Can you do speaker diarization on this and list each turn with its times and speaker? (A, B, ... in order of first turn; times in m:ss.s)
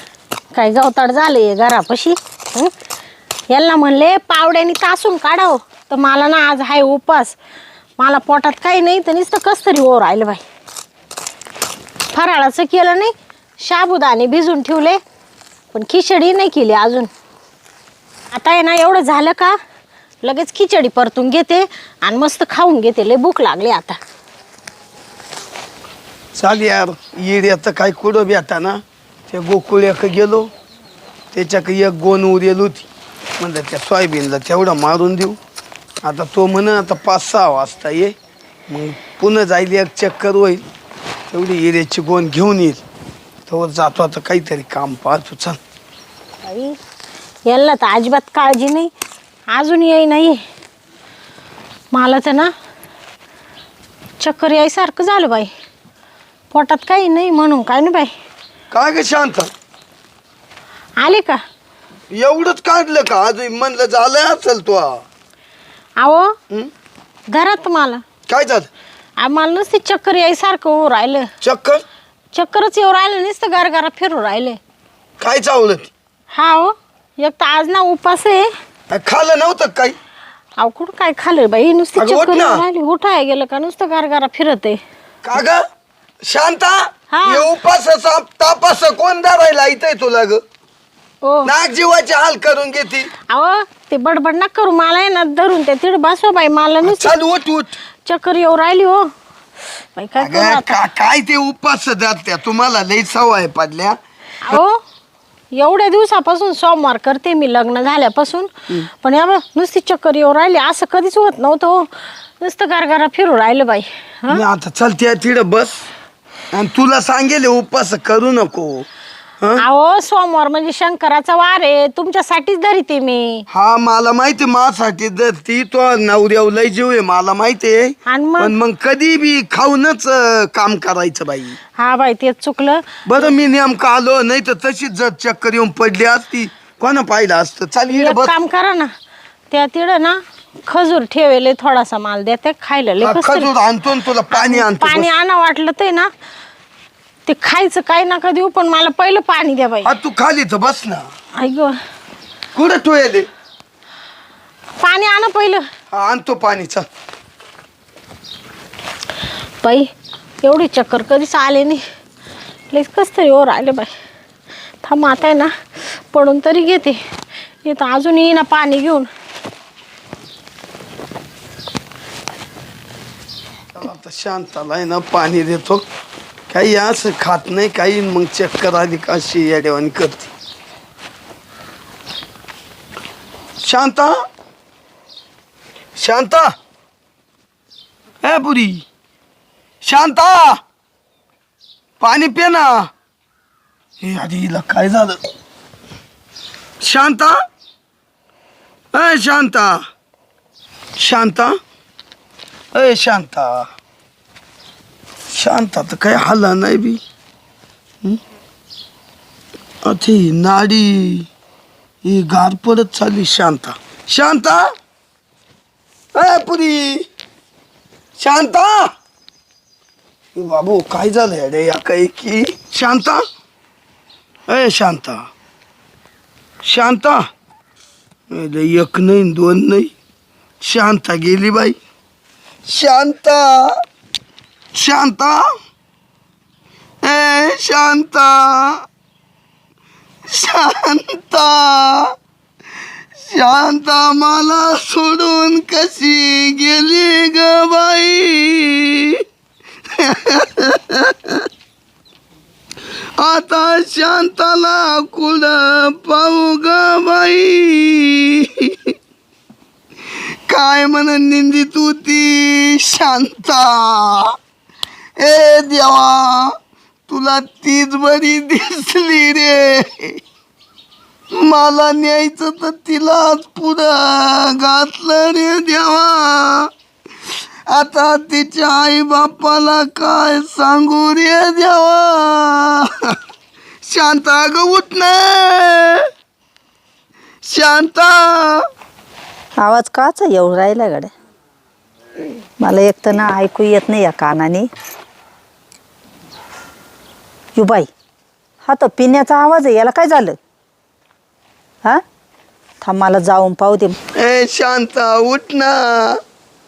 0:00.5-0:02.7 A
0:03.5-0:07.4 A
0:08.0-0:10.4 A
0:12.1-0:15.0 A
0:15.7-0:17.1 A
0:18.3-0:19.6 A
0:20.2-0:24.0 A
0:26.4-0:30.5 B
0:31.3-0:32.9 B
0:33.4-0:35.4 B
0:36.0-0:38.1 B
0:38.7-0:40.6 B
0:41.3-0:42.8 B
0:43.5-0:45.6 B
0:46.4-0:46.8 A
0:47.5-0:48.9 A
0:49.5-0:50.4 A
0:51.9-0:52.5 A
0:54.2-0:55.5 A
0:56.5-0:58.1 A
0:58.7-0:59.5 B
1:01.0-1:01.4 A
1:02.1-1:05.0 B
1:06.0-1:06.3 A
1:07.3-1:08.0 A
1:08.3-1:08.7 B
1:09.2-1:11.3 A
1:11.4-1:11.8 B
1:12.3-1:14.6 A
1:15.2-1:15.9 B
1:16.3-1:18.5 A
1:18.9-1:20.0 B
1:20.6-1:24.8 A
1:21.9-1:22.6 B
1:25.2-1:25.6 B
1:26.2-1:30.4 B
1:27.1-1:27.4 A
1:31.2-1:31.5 A
1:31.4-1:33.1 B
1:33.3-1:37.2 A
1:36.8-1:37.8 B
1:38.0-1:39.1 A
1:39.9-1:40.8 A
1:40.2-1:44.0 B
1:44.4-1:44.8 A
1:45.5-1:54.4 A
1:54.3-1:55.8 B
1:56.5-1:58.8 B
1:59.6-2:03.4 A
2:03.5-2:11.6 B
2:08.1-2:08.5 A
2:11.8-2:12.8 A
2:13.1-2:18.3 B
2:17.9-2:18.9 A
2:19.5-2:23.5 A
2:23.0-2:25.1 B
2:24.3-2:26.1 A
2:27.3-2:29.9 A
2:29.8-2:31.0 B
2:31.4-2:31.7 A
2:32.5-2:33.3 B
2:34.8-2:35.6 A
2:35.9-2:36.9 B
2:39.6-2:39.9 A
2:40.4-2:41.8 A
2:42.7-2:43.9 A
2:44.8-2:47.0 A
2:47.6-2:49.1 A
2:53.7-2:55.8 B
2:56.5-3:00.3 B
3:03.6-3:04.2 B
3:06.0-3:06.5 B
3:08.2-3:08.8 B
3:09.8-3:10.6 B
3:12.0-3:12.9 B
3:14.0-3:15.2 B
3:16.8-3:17.4 B
3:18.9-3:19.8 B
3:21.0-3:21.6 B
3:22.7-3:23.7 B
3:25.3-3:27.0 B
3:29.8-3:31.3 B
3:32.0-3:34.7 B
3:36.1-3:37.0 B
3:38.2-3:38.9 B
3:40.3-3:43.2 B
3:44.5-3:45.3 B
3:46.6-3:47.2 B
3:48.3-3:49.9 B
3:50.6-3:51.8 B
3:52.7-3:53.7 B
3:54.7-3:55.4 B
3:57.0-3:58.8 B
4:00.3-4:02.1 B
4:03.3-4:09.2 B
4:10.0-4:11.4 B
4:13.2-4:18.7 B
4:20.5-4:24.3 B
4:25.2-4:26.5 B
4:27.1-4:30.2 B
4:31.3-4:36.7 B
4:37.7-4:42.9 B
4:43.8-4:46.0 B
4:47.4-4:48.6 B
4:49.6-4:51.1 C
4:52.6-4:54.7 C
4:57.6-4:57.9 C
4:58.6-5:00.4 C
5:02.8-5:04.0 C
5:04.2-5:06.2 B